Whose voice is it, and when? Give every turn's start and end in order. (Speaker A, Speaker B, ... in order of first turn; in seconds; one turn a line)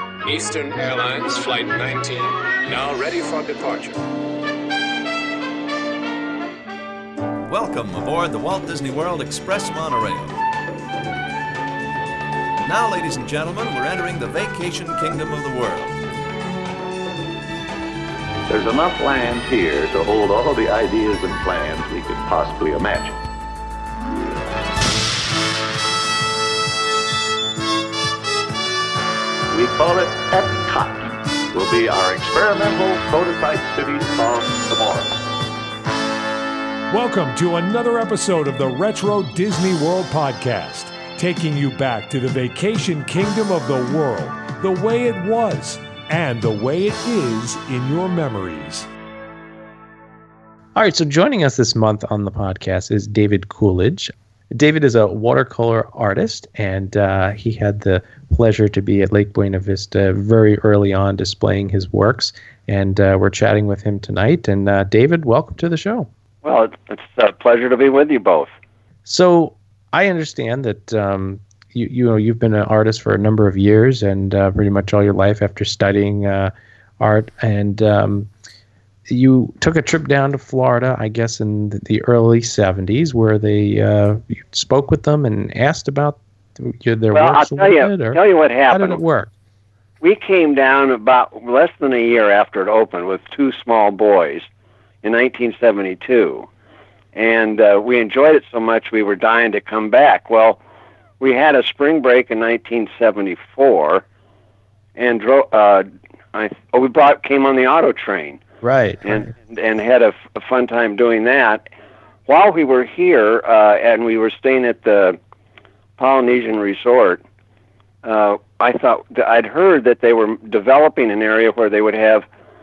Speaker A: 0.2-4.0
Speaker B: 7.5-10.4
Speaker B: 12.6-16.0
Speaker C: 18.5-23.2
Speaker C: 29.5-35.2
Speaker D: 36.9-48.9
Speaker E: 50.8-66.1
Speaker F: 66.4-68.5
Speaker E: 69.1-78.3
Speaker E: 79.1-89.3
Speaker F: 87.1-89.0
Speaker F: 90.0-94.5
Speaker F: 95.0-96.5
Speaker F: 97.2-100.6
Speaker F: 101.2-104.0
Speaker F: 105.0-108.4
Speaker E: 108.6-109.2
Speaker F: 109.0-111.6
Speaker F: 112.3-115.2
Speaker F: 116.0-117.2
Speaker F: 118.0-122.3